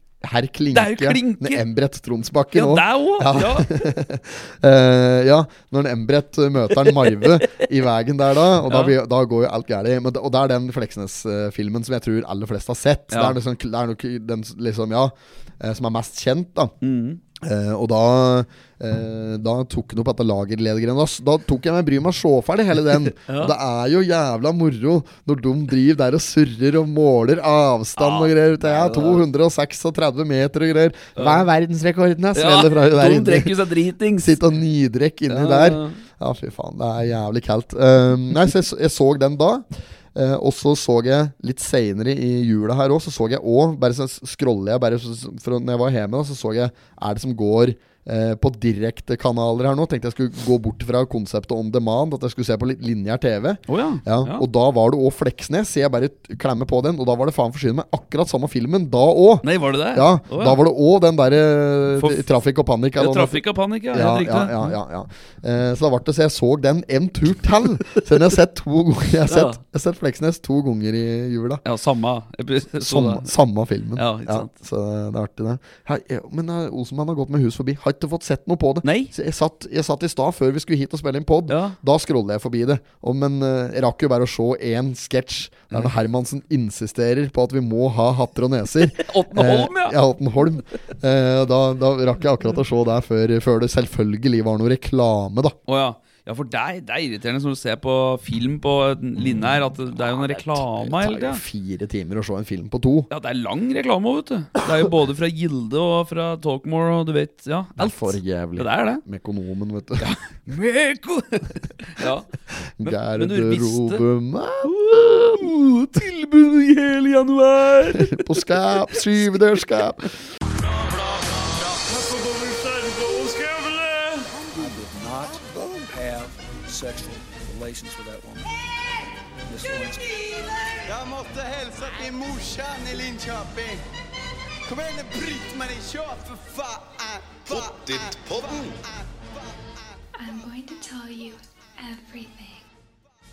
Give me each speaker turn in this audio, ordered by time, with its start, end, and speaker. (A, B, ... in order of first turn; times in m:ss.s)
0:00.2-0:16.7 A
0:00.7-0:01.6 B
0:02.5-0:03.9 B
0:06.8-0:07.6 B
0:08.7-0:08.9 B
0:13.1-0:13.4 B
0:16.8-0:17.2 B
0:17.4-0:33.6 A
0:22.9-0:23.5 B
0:28.0-0:29.2 B
0:31.2-0:31.4 B
0:32.3-0:34.4 B
0:34.2-1:11.6 A
0:35.3-0:36.0 B
0:53.7-0:54.4 B
0:59.4-1:00.6 B
1:02.0-1:02.2 B
1:03.0-1:04.8 B
1:09.2-1:09.6 B
1:11.6-1:13.3 B
1:12.8-1:35.6 A
1:13.9-1:14.5 B
1:18.8-1:19.1 B
1:21.5-1:21.8 B
1:28.8-1:30.0 B
1:35.7-1:41.4 B
1:39.9-1:43.1 A
1:43.1-1:49.0 B
1:47.8-1:50.1 A
1:50.0-1:52.3 B
1:52.6-1:54.7 A
1:52.8-1:54.0 B
1:54.6-1:59.8 B
1:57.9-2:00.1 A
2:00.5-2:08.5 C
2:04.3-2:05.9 A
2:09.4-2:10.9 C
2:10.9-2:13.8 D
2:14.6-2:19.8 D
2:20.2-2:22.7 E